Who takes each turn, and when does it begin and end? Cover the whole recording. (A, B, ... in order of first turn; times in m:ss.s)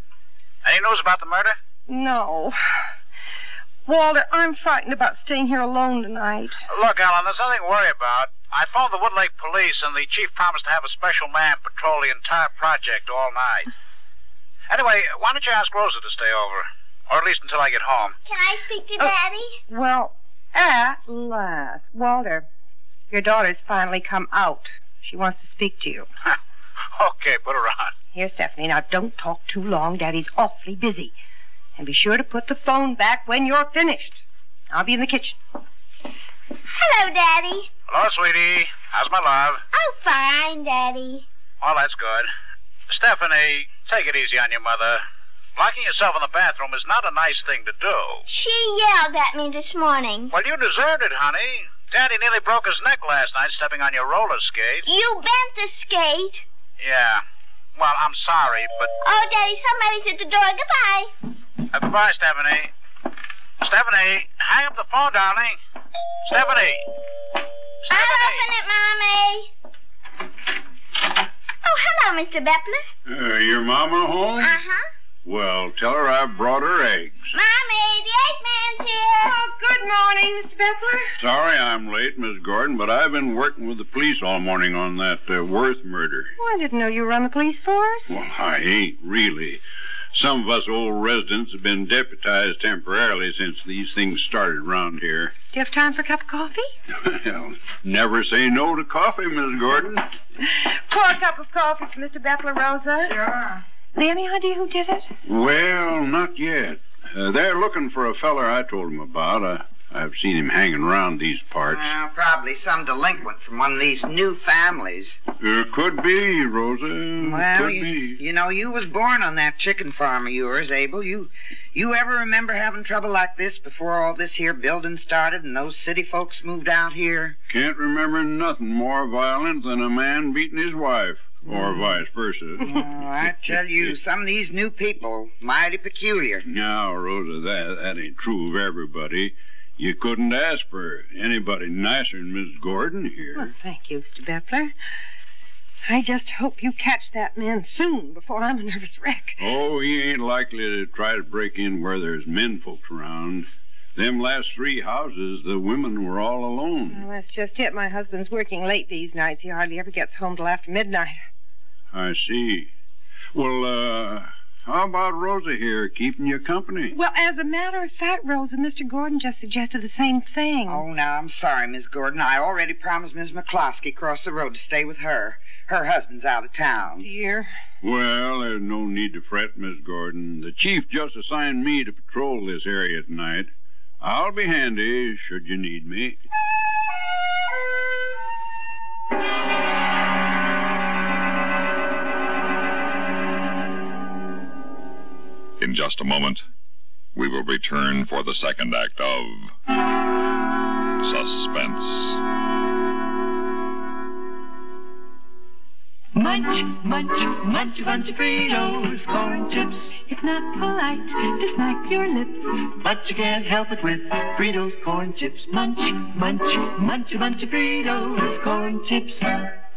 0:00.6-0:01.6 A
0:01.9-0:02.8 B
0:03.9-0:06.6 B
0:06.7-0:13.7 A
0:14.7-0:18.2 A
0:18.2-0:19.6 C
0:19.7-0:22.5 B
0:23.1-0:26.1 B
0:27.0-0:27.9 A
0:28.1-0:31.1 B
0:31.8-0:35.4 B
0:36.7-0:37.7 C
0:37.9-0:39.6 A
0:39.7-0:41.2 C
0:41.6-0:42.3 A
0:42.9-0:45.0 A
0:45.6-0:48.2 A
0:48.3-0:50.3 C
0:50.3-0:54.8 A
0:54.8-0:56.4 C
0:56.8-0:57.2 A
0:57.8-0:58.9 A
0:59.0-1:01.1 C
1:01.7-1:02.7 A
1:03.6-1:05.6 A
1:06.3-1:06.8 A
1:07.9-1:08.4 A
1:07.9-1:09.5 C
1:11.6-1:12.9 C
1:13.1-1:14.5 D
1:14.4-1:14.8 C
1:15.2-1:17.3 D
1:17.3-1:19.4 C
1:19.2-1:21.1 B
1:21.2-1:26.3 D
1:26.4-1:28.1 B
1:28.1-1:29.6 D
1:30.1-1:35.3 D
1:35.5-1:36.7 B
1:37.0-1:40.1 D
1:40.4-1:43.2 B
1:43.1-1:43.6 E
1:44.0-1:45.1 B
1:45.3-1:51.9 D
1:51.6-1:55.2 E
1:55.4-1:58.2 D
1:57.2-2:07.4 E
2:07.5-2:12.7 D
2:11.5-2:12.0 E
2:12.6-2:16.5 E
2:13.2-2:13.9 D
2:16.4-2:23.5 D
2:23.4-2:24.7 B
2:25.9-2:29.4 B
2:29.4-2:37.0 D
2:36.9-2:41.2 B
2:41.9-2:42.7 D
2:43.3-2:46.9 D
2:46.9-2:50.8 B
2:50.7-2:57.1 E
2:57.0-2:57.5 B
2:57.8-3:06.2 D
3:15.6-3:16.4 F
3:17.2-3:19.5 F
3:21.0-3:22.2 F
3:26.1-3:39.5 G